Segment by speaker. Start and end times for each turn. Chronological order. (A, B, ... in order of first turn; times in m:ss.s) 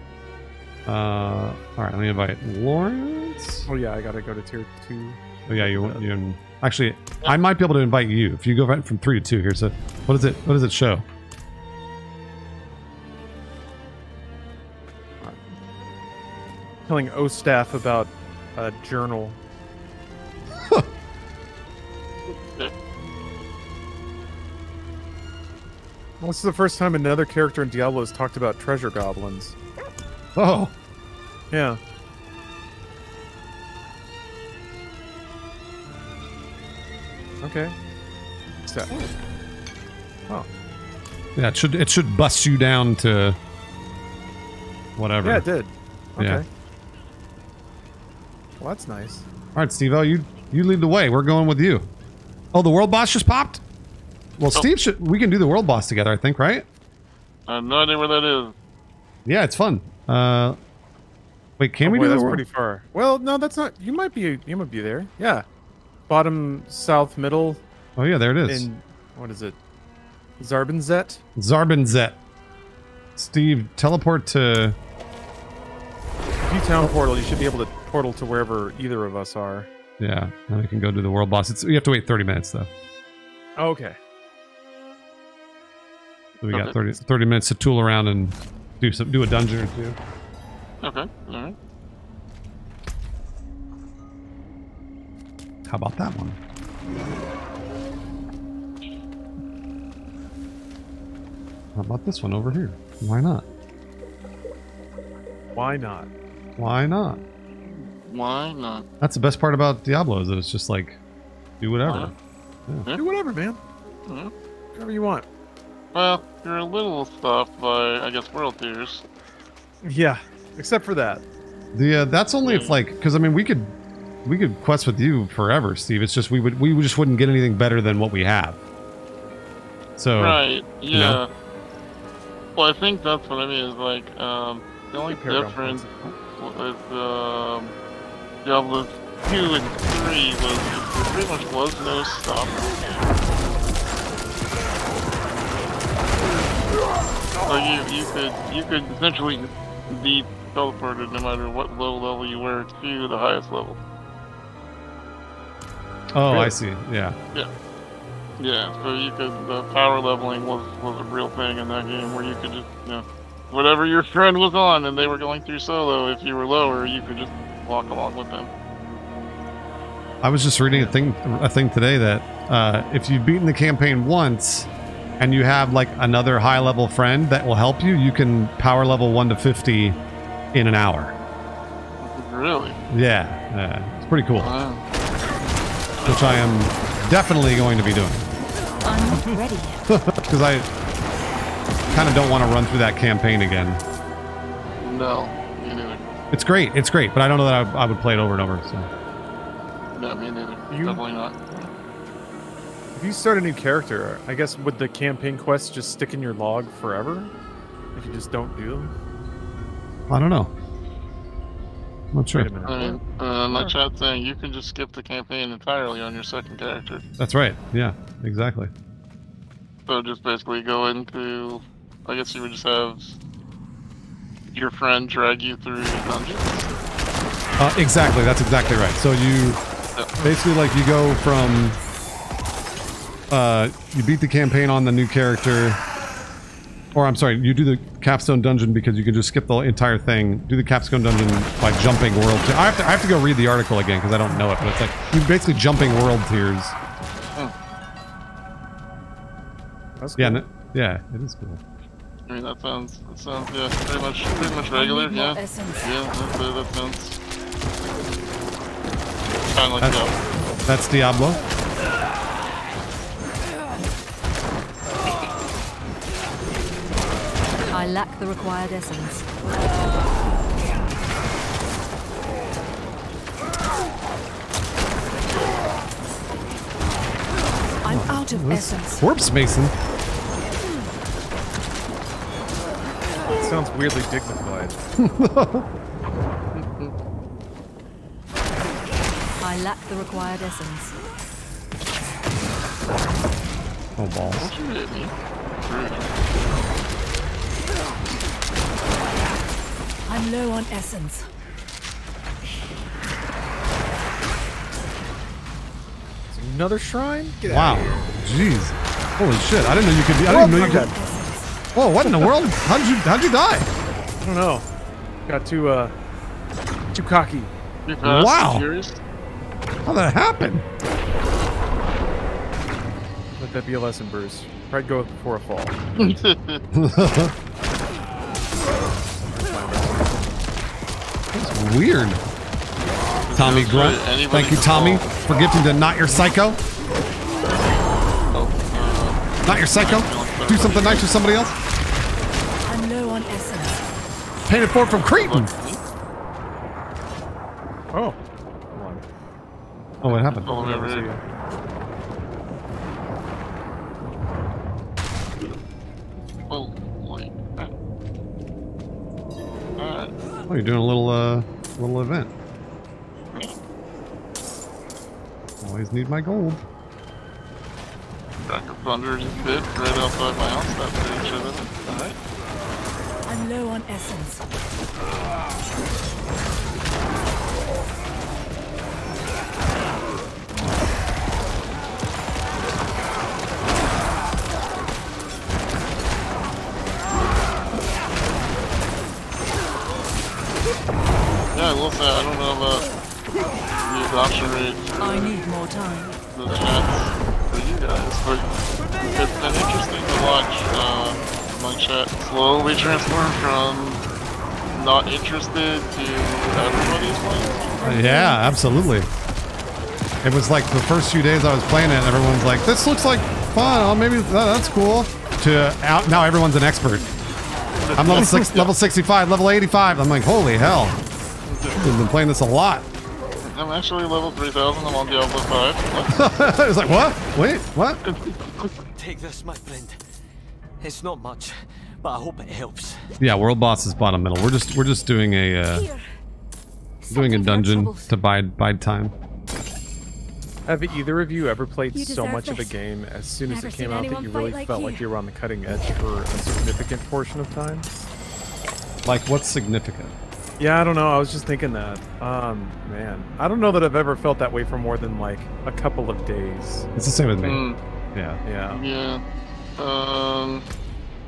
0:00.8-0:03.7 A
0:03.6-0:06.0 B
0:05.5-0:11.0 A
0:15.2-0:15.4 B
0:16.9-0:19.4 B
0:22.3-0:22.7 C
0:26.2-0:29.6 B
0:30.4-0:30.7 A
0:31.5-0:31.8 B
0:37.4-0:37.7 B
0:41.4-0:43.4 A
0:45.0-0:45.4 A
0:45.2-0:46.4 B
0:46.2-0:46.4 A
0:48.6-0:49.2 B
0:49.5-0:51.9 A
0:52.5-0:53.6 A
0:54.4-0:56.6 A
0:57.5-0:58.5 C
0:59.2-1:00.6 A
1:01.6-1:02.4 A
1:01.8-1:05.4 B
1:06.1-1:07.6 B
1:08.0-1:08.7 A
1:08.5-1:09.6 B
1:10.4-1:11.2 B
1:11.4-1:12.2 A
1:13.2-1:14.8 A
1:16.4-1:19.7 B
1:20.0-1:22.7 A
1:23.6-1:24.0 B
1:26.4-1:30.0 A
1:26.5-1:26.8 C
1:30.8-1:31.6 C
1:35.6-1:36.4 A
1:41.7-1:43.4 A
1:45.5-1:46.1 B
1:46.6-1:47.2 A
1:47.7-1:48.8 C
1:49.0-1:51.0 A
1:51.6-1:52.1 A
1:51.8-1:52.1 C
1:52.9-1:53.6 B
1:54.1-1:54.3 C
1:54.7-1:55.2 B
1:55.9-1:59.0 C
1:59.8-2:01.2 B
2:01.7-2:08.6 A
2:02.4-2:02.8 C
2:10.0-2:10.4 A
2:10.2-2:11.3 C
2:10.9-2:11.2 A
2:12.6-2:17.7 C
2:15.1-2:16.1 B
2:18.4-2:22.8 C
2:27.4-2:33.8 C
2:36.1-2:37.2 A
2:36.3-2:36.5 B
2:38.4-2:48.5 C
2:50.2-3:00.0 A
2:50.7-2:51.0 B
3:00.5-3:01.2 A
3:02.0-3:02.8 C
3:02.9-3:04.5 A
3:04.4-3:04.8 C
3:06.0-3:06.4 C
3:06.0-3:08.3 A
3:08.8-3:09.8 D
3:09.9-3:10.7 A
3:11.9-3:13.8 A
3:14.8-3:16.0 C
3:16.3-3:18.9 A
3:19.9-3:21.7 C
3:20.7-3:21.0 B
3:22.9-3:27.3 B
3:27.9-3:28.9 B
3:30.1-3:30.5 A
3:32.1-3:32.5 A
3:32.3-3:33.8 B
3:32.6-3:37.0 C
3:37.2-3:38.7 A
3:39.9-3:43.2 C
3:44.5-3:46.7 C
3:47.6-3:49.6 A
3:50.2-3:51.8 A
3:53.3-3:55.8 A
3:56.9-4:06.8 A
4:10.0-4:10.4 B
4:10.2-4:11.6 A
4:12.3-4:17.2 C
4:14.7-4:15.9 D
4:19.5-4:20.1 C
4:19.8-4:20.0 A
4:20.6-4:21.4 A
4:27.7-4:29.3 D
4:37.8-4:39.1 D
4:37.9-4:39.7 A
4:43.2-4:44.8 B
4:45.0-4:45.6 A
4:46.5-4:46.9 C
4:49.4-4:50.9 D
4:54.0-4:54.5 A
4:54.2-4:56.1 C
5:00.1-5:01.3 D
5:06.3-5:08.0 B
5:07.4-5:10.9 A
5:10.2-5:10.9 B
5:10.4-5:11.5 D
5:11.7-5:13.7 A
5:12.0-5:12.3 B
5:14.2-5:14.6 B
5:15.3-5:15.9 B
5:16.9-5:17.5 B
5:17.8-5:19.0 C
5:18.0-5:18.7 A
5:19.8-5:20.6 A
5:23.4-5:26.1 B
5:26.0-5:26.6 C
5:26.7-5:27.3 A
5:29.3-5:30.4 B
5:31.3-5:32.2 A
5:33.3-5:35.1 C
5:33.3-5:36.6 A
5:38.3-5:41.1 C
5:39.4-5:41.6 A
5:42.7-5:43.8 D
5:44.4-5:45.5 A
5:45.0-5:45.8 C
5:47.9-5:48.2 B
5:48.7-5:49.0 B
5:50.0-5:50.6 A
5:50.1-5:51.1 C
5:50.5-5:51.2 B
5:56.5-5:57.7 C
5:59.8-6:00.1 C
6:00.5-6:02.3 A
6:05.6-6:06.6 A
6:08.5-6:12.1 C
6:13.3-6:14.5 D
6:31.5-6:32.8 C
6:33.8-6:35.3 C
6:35.0-6:36.2 D
6:36.3-6:38.5 C
6:39.0-6:44.0 C
6:44.7-6:47.8 C
6:47.8-6:49.0 D
6:47.8-6:49.1 A
6:50.2-6:57.1 A
6:57.8-6:58.7 C
6:58.0-7:01.0 A
7:01.4-7:02.0 C
7:01.8-7:02.8 A
7:03.4-7:06.3 C
7:06.1-7:08.0 A
7:08.0-7:08.8 C
7:08.9-7:10.0 E
7:10.8-7:13.0 E
7:13.2-7:15.8 A
7:15.7-7:16.0 D
7:17.0-7:18.1 D
7:17.1-7:19.1 A
7:20.6-7:27.9 B
7:21.9-7:22.8 D
7:23.5-7:25.1 D
7:29.0-7:30.1 A
7:30.6-7:36.9 B
7:37.0-7:37.6 A
7:37.4-7:37.8 C
7:38.1-7:38.4 A
7:38.4-7:38.8 B
7:38.7-7:39.2 C
7:39.8-7:40.6 C